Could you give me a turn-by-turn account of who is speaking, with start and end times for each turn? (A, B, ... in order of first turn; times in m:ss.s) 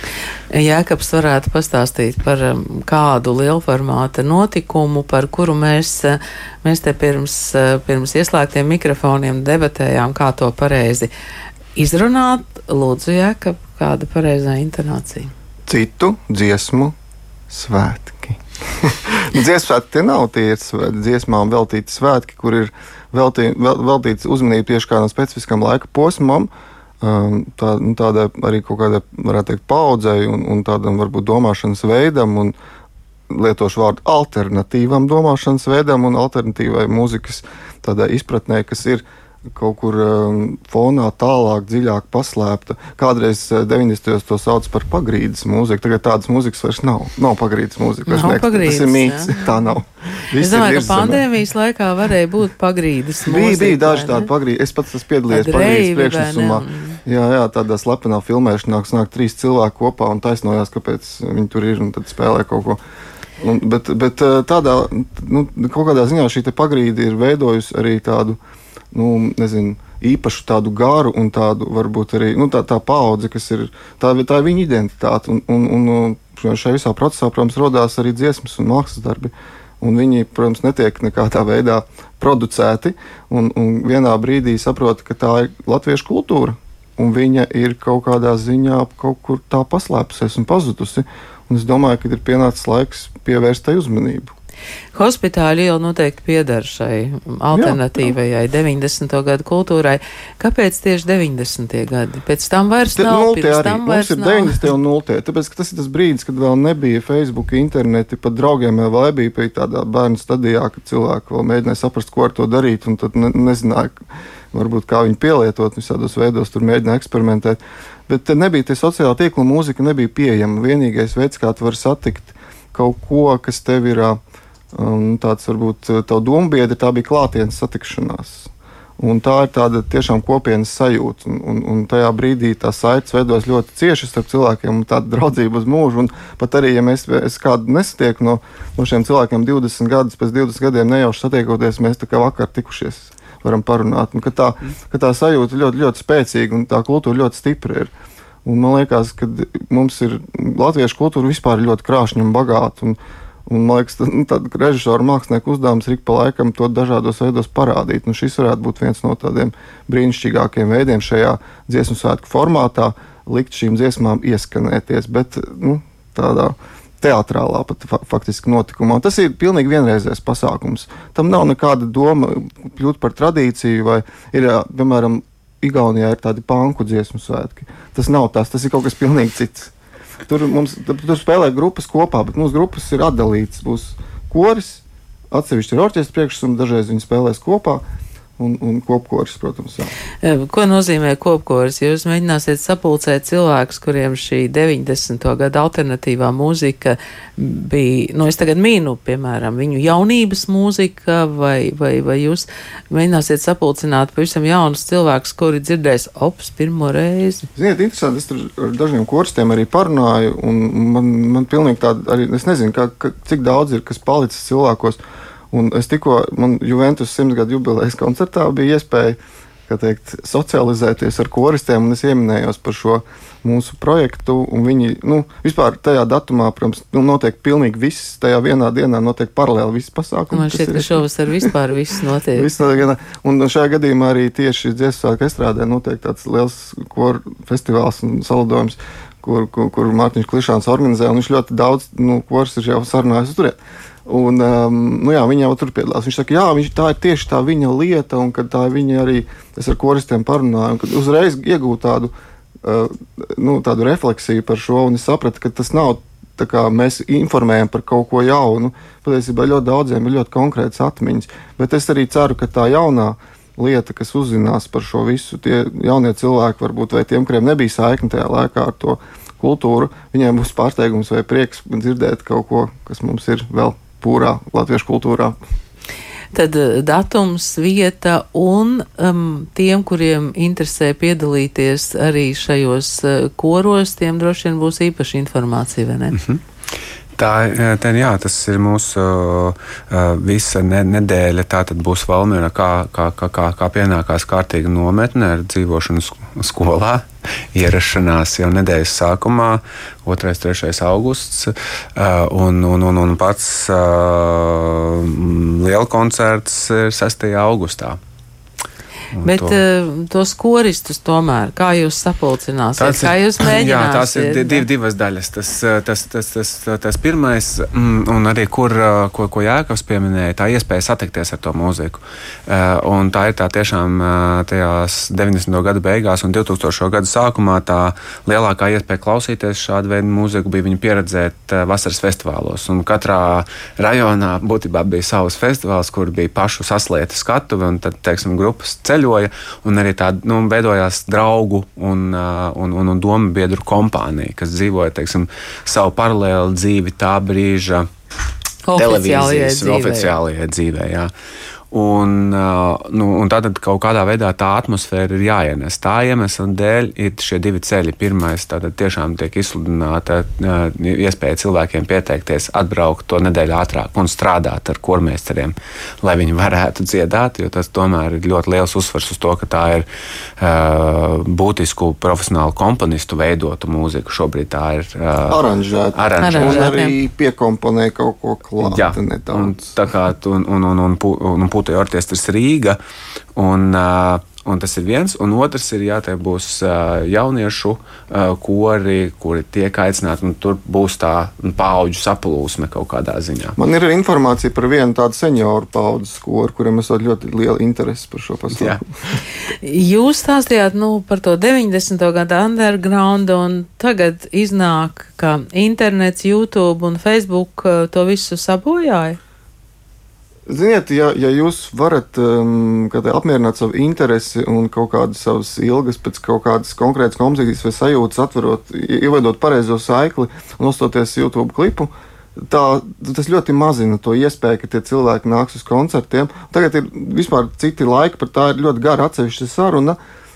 0:00.5-0:11.1 A
0:11.8-0:15.3 A
0:15.7-0:17.0 B
0:17.5-0:26.5 B
0:27.0-0:32.5 B
0:33.3-0:51.2 B
0:48.1-0:49.5 A
0:50.4-0:54.3 A
0:53.3-1:02.8 B
0:55.3-0:57.0 A
1:03.4-1:08.4 B
1:08.9-1:34.3 B
1:34.9-1:44.7 A
1:37.5-1:38.1 B
1:43.0-1:54.0 B
1:54.5-2:04.2 B
2:04.7-2:27.9 B
2:28.4-2:59.7 B
3:00.3-3:07.8 B
3:08.4-3:09.9 B
3:10.2-3:27.5 A
3:27.6-3:35.0 B
3:35.5-3:51.5 B
3:50.3-3:52.5 A
3:52.4-4:35.4 B
4:36.3-4:46.2 A
4:46.1-4:46.4 C
4:47.2-5:08.0 C
5:09.1-5:09.6 C
5:09.2-5:14.7 A
5:12.8-5:47.9 C
5:48.7-5:50.2 A
5:48.8-5:51.1 C
5:51.7-6:09.9 C
6:10.4-6:15.4 C
6:15.3-6:19.6 B
6:15.9-6:16.7 C
6:16.2-6:16.9 A
6:18.6-6:22.8 C
6:23.4-6:33.6 C
6:33.6-6:38.8 B
6:38.6-6:38.8 C
6:39.6-6:49.2 A
6:50.5-7:10.0 B